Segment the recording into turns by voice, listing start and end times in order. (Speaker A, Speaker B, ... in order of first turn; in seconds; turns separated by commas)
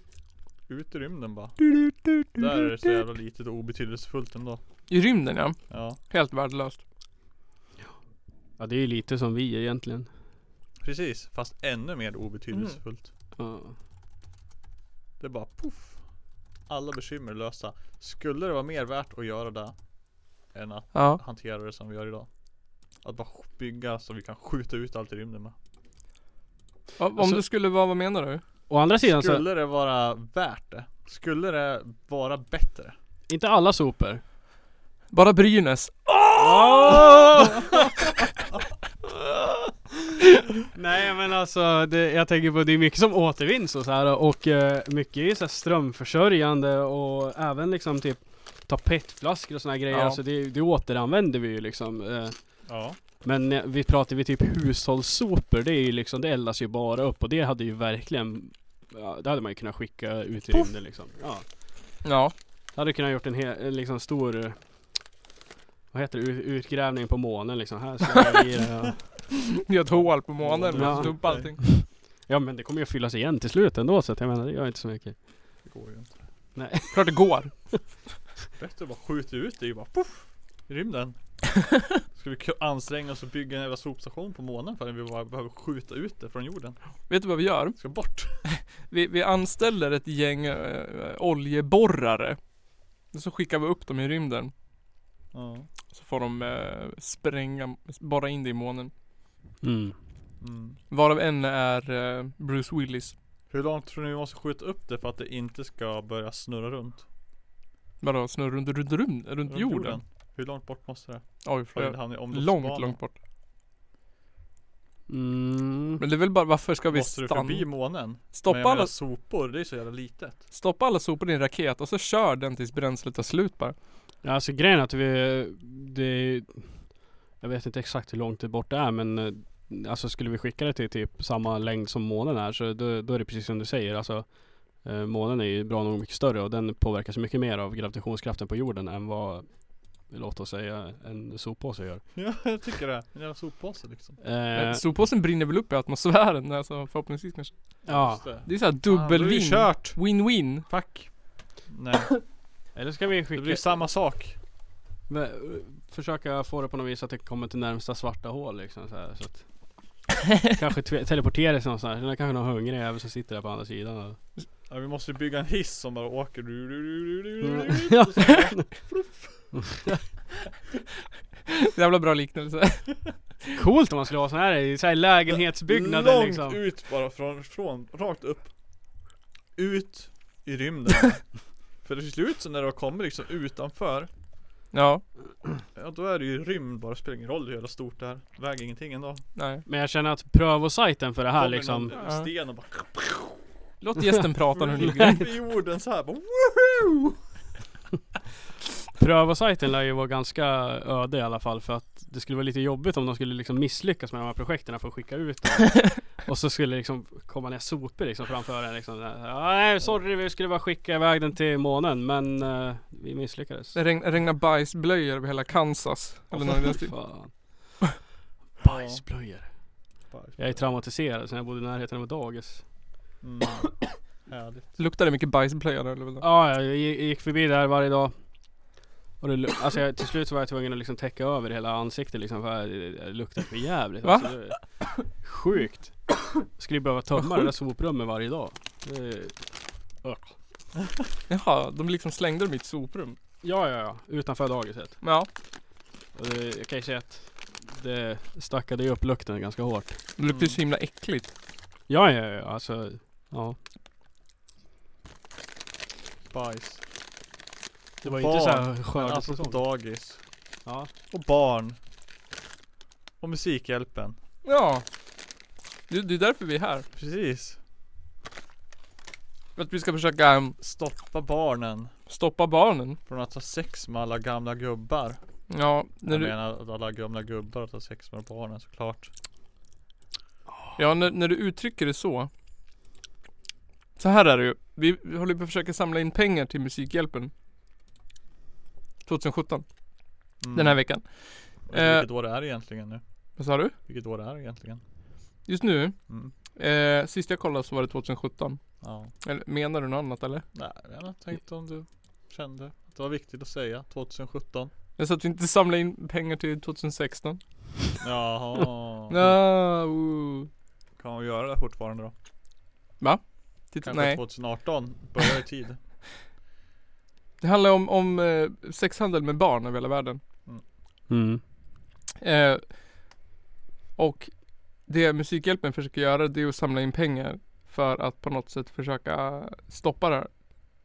Speaker A: 0.7-1.6, Speaker B: 1.8-2.3, Speaker A: 2.4-4.6, Speaker B: 4.9-6.8, Speaker A: 5.7-6.0, Speaker C: 8.6-10.1, Speaker A: 10.8-13.1, Speaker B: 12.5-12.8, Speaker C: 13.4-13.8, Speaker A: 15.2-16.1, Speaker A: 16.7-19.9, Speaker A: 20.4-25.6, Speaker B: 20.9-21.2, Speaker B: 27.0-28.4, Speaker C: 28.7-29.4, Speaker A: 29.0-33.0, Speaker C: 33.3-34.2, Speaker B: 35.1-37.6, Speaker C: 36.4-37.7, Speaker C: 40.7-52.7, Speaker B: 49.9-50.2, Speaker A: 52.7-53.0, Speaker C: 53.2-61.5, Speaker B: 62.0-62.3, Speaker C: 62.8-65.1, Speaker C: 65.9-69.1, Speaker B: 69.5-71.7, Speaker A: 69.9-71.5, Speaker C: 70.7-75.2, Speaker A: 75.6-76.2, Speaker C: 76.5-77.8, Speaker B: 76.9-78.0, Speaker A: 78.5-88.5, Speaker B: 87.1-92.4, Speaker B: 93.1-94.5, Speaker A: 95.3-95.7, Speaker B: 95.9-98.9, Speaker C: 99.6-100.0, Speaker A: 100.4-100.8, Speaker B: 100.9-103.2, Speaker A: 103.5-107.1, Speaker B: 108.0-110.0, Speaker A: 109.5-113.0, Speaker B: 111.4-113.2, Speaker C: 115.1-116.0, Speaker B: 116.0-118.9, Speaker A: 116.9-120.5, Speaker B: 120.5-123.8, Speaker C: 124.2-142.1, Speaker A: 142.2-144.2, Speaker C: 144.2-144.8, Speaker B: 144.5-150.7, Speaker C: 147.9-148.2, Speaker A: 147.9-152.2, Speaker C: 152.8-153.8, Speaker A: 153.3-154.4, Speaker C: 155.1-159.5, Speaker C: 160.5-164.2, Speaker A: 164.7-169.8, Speaker C: 167.4-168.7, Speaker C: 169.5-170.0, Speaker B: 171.7-173.4, Speaker C: 173.6-176.6, Speaker A: 175.3-178.6, Speaker A: 179.6-184.1, Speaker B: 184.7-185.1, Speaker A: 185.8-189.2, Speaker B: 189.4-189.6, Speaker C: 189.7-191.9, Speaker A: 191.3-193.4, Speaker B: 192.0-192.3, Speaker B: 193.8-195.3, Speaker A: 194.5-197.2, Speaker C: 199.0-213.8, Speaker B: 213.8-217.0, Speaker C: 216.3-217.8, Speaker C: 218.6-219.6, Speaker A: 218.6-219.0, Speaker A: 220.1-220.6, Speaker C: 220.4-222.7, Speaker A: 223.2-224.8, Speaker B: 224.8-226.3, Speaker C: 226.2-228.2, Speaker C: 229.2-240.3, Speaker B: 234.0-234.9, Speaker B: 237.2-237.5, Speaker B: 241.3-243.2, Speaker C: 243.4-245.0, Speaker B: 245.0-245.3, Speaker C: 246.1-250.0, Speaker B: 250.2-251.3, Speaker A: 250.3-250.6, Speaker C: 251.9-253.6, Speaker A: 256.3-256.8, Speaker C: 258.0-259.6, Speaker A: 258.0-260.2, Speaker C: 260.7-260.9, Speaker A: 261.1-261.8, Speaker A: 263.2-264.2, Speaker B: 264.4-264.8, Speaker B: 265.9-266.9, Speaker A: 266.9-267.6, Speaker B: 269.6-270.6, Speaker A: 270.6-271.9, Speaker B: 272.1-273.0, Speaker A: 273.1-275.2, Speaker B: 275.5-276.3, Speaker A: 276.1-279.1, Speaker B: 280.8-282.3, Speaker B: 284.0-287.3, Speaker B: 289.1-289.7, Speaker B: 290.3-292.1, Speaker A: 290.4-291.0, Speaker A: 291.7-293.0, Speaker B: 293.4-293.7, Speaker A: 293.9-294.8, Speaker B: 295.5-300.5, Speaker A: 298.8-299.1, Speaker A: 300.5-304.7, Speaker B: 305.0-307.9, Speaker A: 308.0-309.4, Speaker B: 309.1-310.5, Speaker A: 311.0-312.1, Speaker B: 313.0-314.9, Speaker A: 313.8-315.8, Speaker B: 317.4-320.2, Speaker C: 321.1-321.4, Speaker B: 322.2-322.8, Speaker B: 324.0-330.3